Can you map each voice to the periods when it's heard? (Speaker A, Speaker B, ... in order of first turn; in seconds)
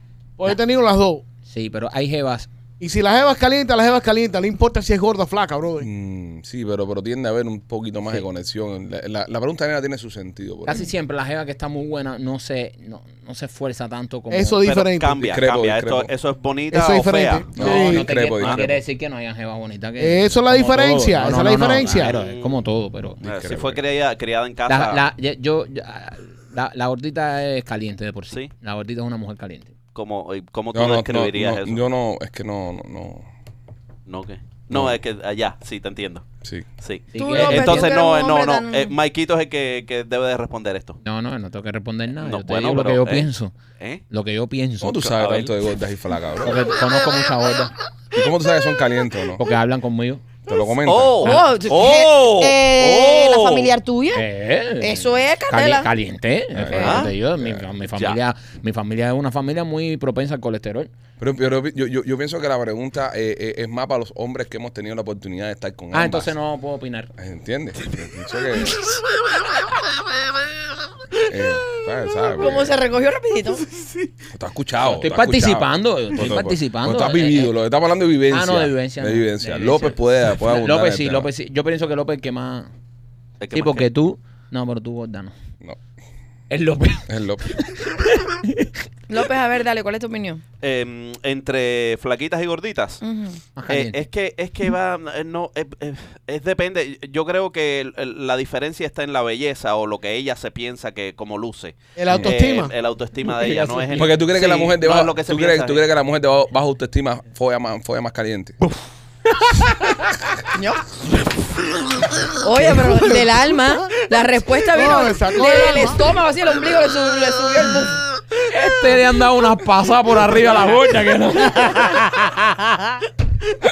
Speaker A: 0.4-1.2, 2.8-5.9, 14.3-15.2, 16.7-18.1, 20.0-22.2, 102.0-102.7, 114.7-116.0
Speaker B: 1.4-2.5, 10.6-14.6, 17.6-23.2, 24.7-29.7, 37.1-38.0, 41.0-43.5, 44.1-45.0, 46.4-47.7, 49.4-50.2, 54.1-60.9, 65.9-67.1, 74.8-77.5, 78.3-82.7, 83.5-85.3, 86.5-88.8, 93.5-94.0, 103.5-104.1, 118.4-122.6
Speaker C: 5.8-10.9, 15.2-16.1, 17.6-18.8, 23.2-23.8, 30.7-33.2, 34.7-35.0, 44.8-46.6, 48.1-49.4, 50.5-51.4, 56.5-57.6, 61.2-66.3, 67.2-68.8, 71.2-72.8, 74.3-81.3, 87.1-87.5, 103.9-108.6
Speaker D: 14.6-18.6, 21.8-22.6, 23.2-25.0, 29.9-31.8, 34.1-36.2, 36.8-41.0, 42.2-43.3, 44.9-45.5, 50.9-53.7, 56.7-57.1, 57.9-58.2, 83.4-83.9, 90.6-93.0, 93.7-105.8
Speaker E: 37.1-38.9, 51.2-54.2, 54.8-55.9, 72.3-73.7, 89.1-90.4, 93.0-93.4, 110.5-110.8, 112.4-118.0